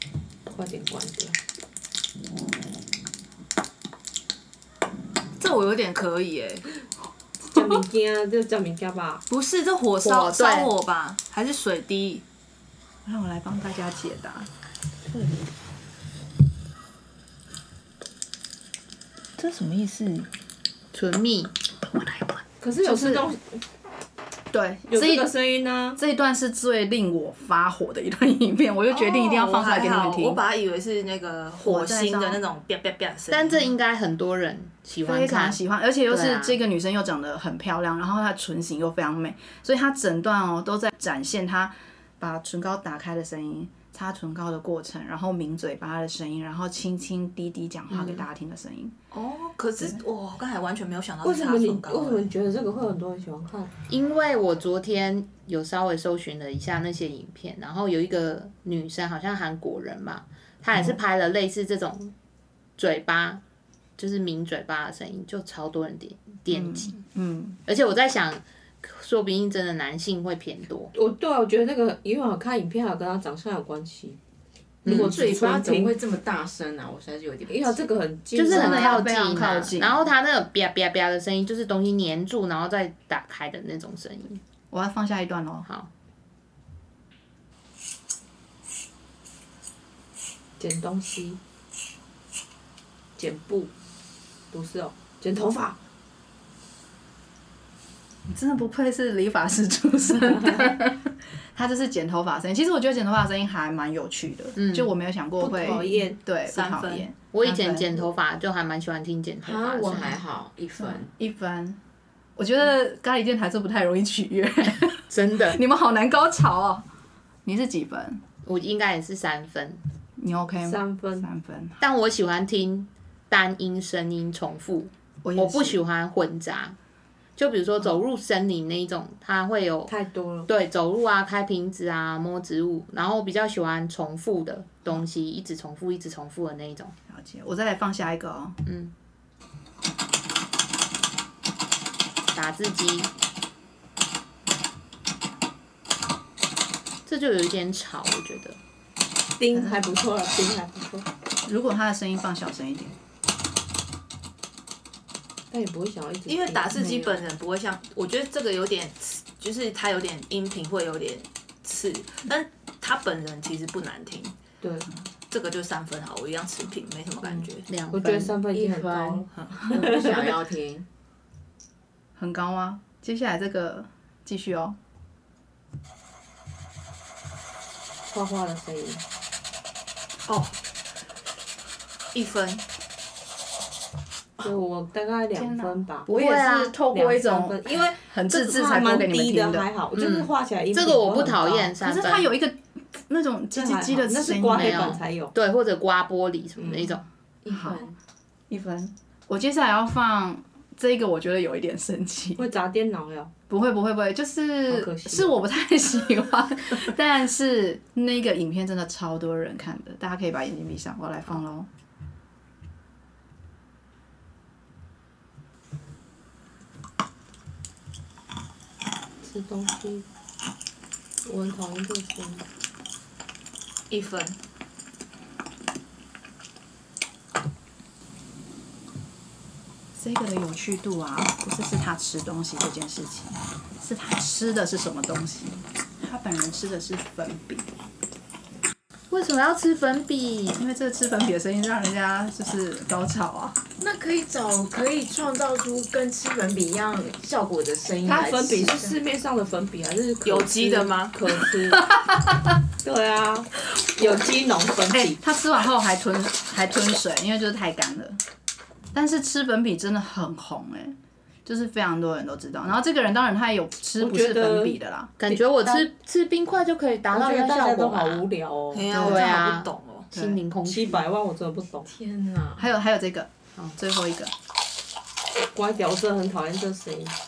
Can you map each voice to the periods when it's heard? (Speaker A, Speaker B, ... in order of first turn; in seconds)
Speaker A: 0.5-1.4, 7.5-9.2, 22.6-23.6, 24.9-26.0, 51.2-53.7, 70.9-74.2, 74.8-76.0, 77.5-79.0, 90.6-91.4, 93.2-93.7, 94.5-95.8, 100.2-100.8, 105.4-106.2, 120.6-121.3, 129.9-130.5, 149.4-151.1, 155.5-157.0, 164.6-164.9, 167.9-170.4, 178.1-179.0, 184.4-186.1, 186.9-191.7, 193.5-195.3, 202.4-203.3, 204.7-205.4, 219.2-220.1, 221.2-222.4, 248.0-252.0, 252.8-255.2, 264.0-264.8, 265.3-265.8, 267.1-268.9, 270.6-271.9, 275.5-277.1
Speaker B: 5.4-6.7, 9.3-12.2, 19.4-20.3, 28.9-33.7, 49.1-52.3, 106.5-107.1, 156.3-164.3, 165.3-167.7, 169.3-169.7, 180.3-180.5, 182.1-182.6, 223.9-224.4, 250.2-251.2, 268.7-270.1
Speaker C: 10.0-10.7, 20.9-21.5, 33.3-36.6, 53.9-62.1, 62.8-63.4, 64.0-67.0, 67.7-70.9, 74.8-75.2, 78.3-84.4, 104.5-104.9, 107.3-110.2, 115.1-115.6, 118.4-119.8, 121.8-126.8, 127.3-129.9, 130.5-136.9, 138.6-138.9, 142.3-143.1, 147.1-148.6, 167.7-168.4, 186.1-186.7, 189.9-192.3, 194.5-197.0, 239.1-240.6, 265.2-268.2, 269.0-271.0
Speaker D: 13.0-14.5, 22.8-23.3, 24.5-25.3, 25.9-30.4, 31.6-32.4, 35.0-49.0, 60.7-61.0, 66.5-67.6, 78.5-80.0, 84.7-85.7, 98.3-108.1, 110.8-111.8, 112.3-116.8, 117.4-118.2, 120.2-121.8, 125.2-125.8, 137.1-138.6, 149.5-149.9, 151.4-152.9, 156.8-157.1, 172.2-174.8, 185.3-189.7, 191.8-195.0, 197.5-197.8, 198.5-202.5, 203.5-211.7, 229.9-237.7, 240.6-243.6, 254.9-258.2, 258.9-265.1, 268.9-269.3, 270.1-270.4, 272.6-274.3
Speaker E: 74.9-77.8, 109.4-111.1, 168.5-170.8, 197.4-197.9, 243.8-249.0, 271.8-272.7